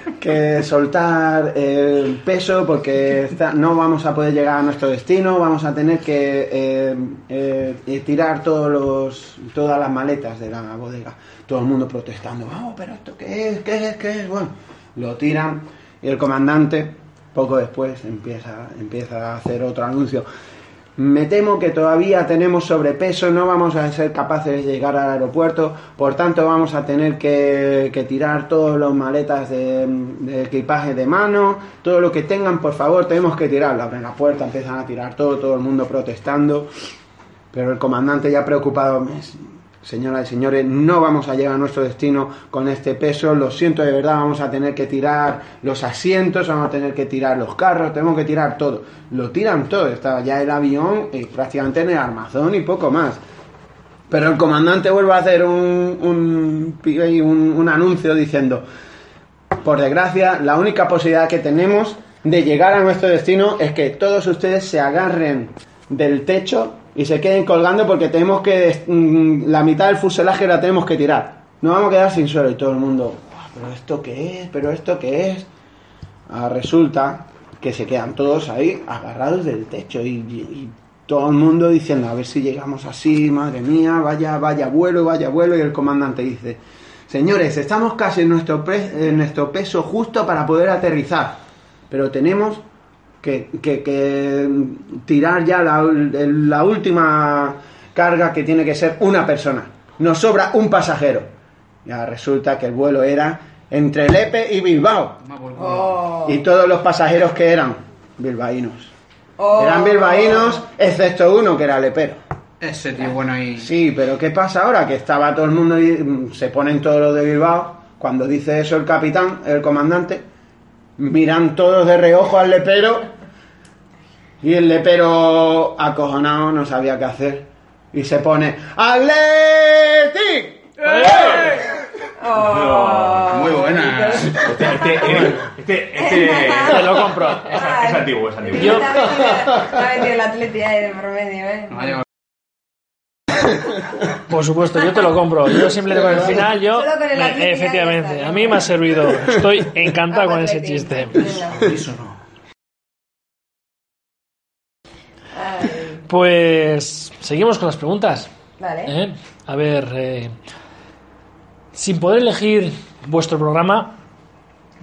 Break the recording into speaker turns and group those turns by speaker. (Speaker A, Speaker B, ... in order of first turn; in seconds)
Speaker A: 0.2-20.3, 21.0-36.7, 37.5-53.2, 54.1-58.6, 59.6-75.5, 76.3-92.6, 93.2-101.3, 101.8-105.2, 106.2-108.9, 109.5-112.2, 113.6-120.2, 121.0-123.1, 124.4-130.6
Speaker B: 105.2-106.0, 112.6-113.7, 131.0-131.5, 133.3-134.5, 141.7-142.0, 151.3-152.2
Speaker C: 105.6-106.4, 109.4-110.6, 132.2-135.0, 136.0-142.0, 146.2-148.9, 150.1-151.7, 155.3-156.0, 158.6-158.9
Speaker D: 132.3-133.5, 134.4-139.2
Speaker E: 136.6-137.6, 138.6-138.8, 144.3-151.4, 156.1-158.3, 158.9-160.3, 161.7-164.0